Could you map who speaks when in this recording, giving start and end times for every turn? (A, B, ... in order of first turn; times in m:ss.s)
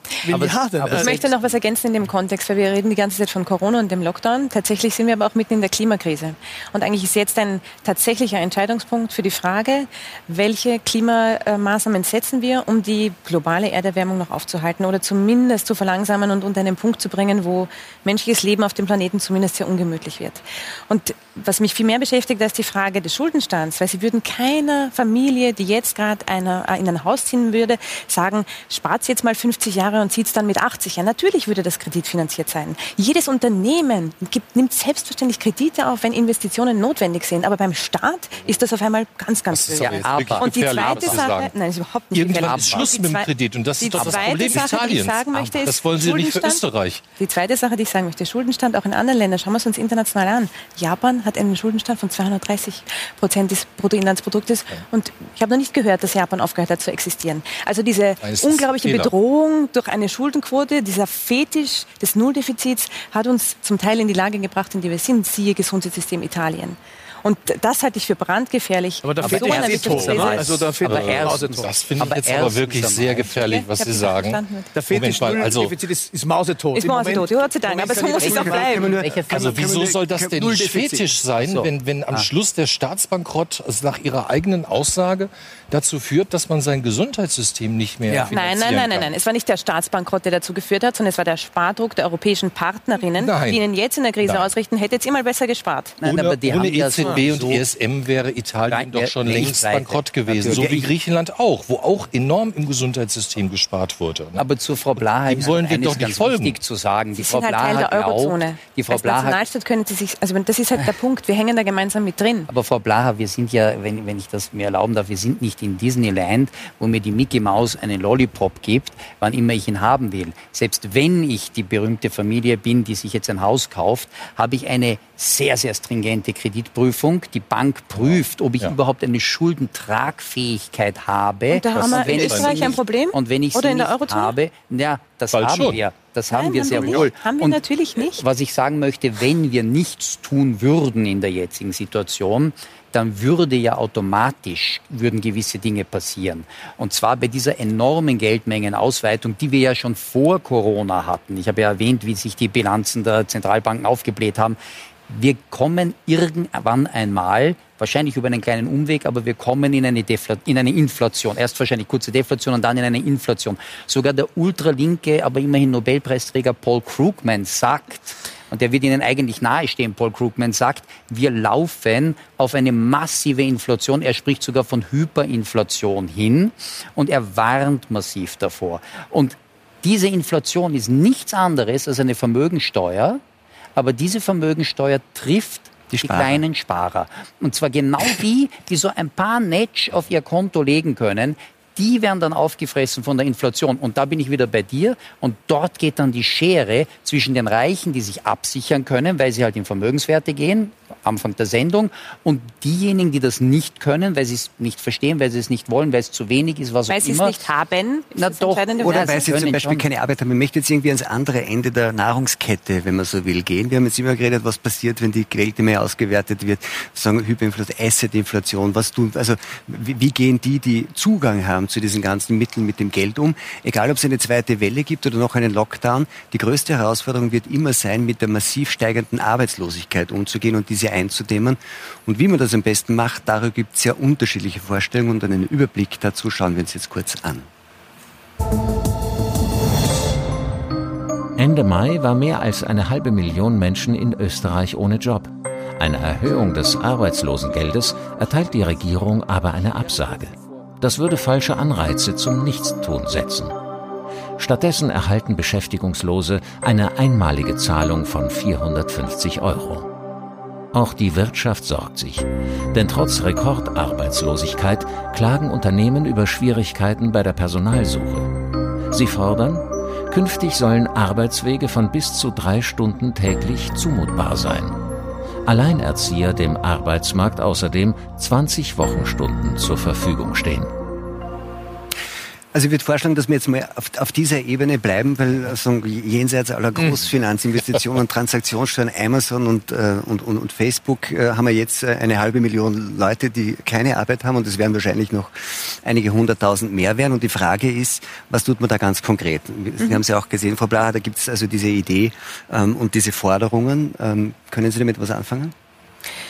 0:00.2-0:01.1 A
0:00.3-0:01.4 B
0:01.0-0:43.3 C
0:39.5-0:41.5 D
0:39.8-0:41.3 B
0:42.1-0:47.0 D
0:42.4-0:42.9 B
0:43.8-0:46.6 C
0:44.0-0:44.7 B
0:47.2-1:10.6 C
0:58.2-0:59.1 D
1:09.0-1:11.7 A
1:09.2-1:13.4 B
1:09.2-1:15.8 D
1:13.3-1:14.7 C
1:14.8-1:18.8 A
1:16.7-1:18.9 C
1:18.1-1:19.7 B
1:18.3-1:21.1 E
1:19.3-1:29.1 D
1:21.4-1:22.3 B
1:28.3-1:36.0 C
1:33.1-1:33.6 D
1:34.2-1:34.5 D
1:36.0-1:37.6 B
1:36.0-1:44.4 D
1:38.7-1:40.9 B
1:44.4-1:49.4 B
1:45.3-1:46.6 D
1:47.2-1:52.5 C
1:52.5-2:34.6 B
2:08.0-2:08.8 D
2:11.5-2:14.3 C
2:11.8-2:12.8 D
2:15.3-2:15.8 D
2:16.3-2:18.2 C
2:35.1-3:03.2 B
3:03.8-3:27.4 B
3:05.9-3:06.4 E
3:26.9-3:29.3 C
3:28.2-3:29.9 B
3:28.8-3:57.5 E
4:01.4-4:13.6 F
4:14.4-4:19.9 F
4:20.7-4:28.3 F
4:28.9-4:34.8 F
4:35.4-4:40.7 F
4:42.5-5:05.5 E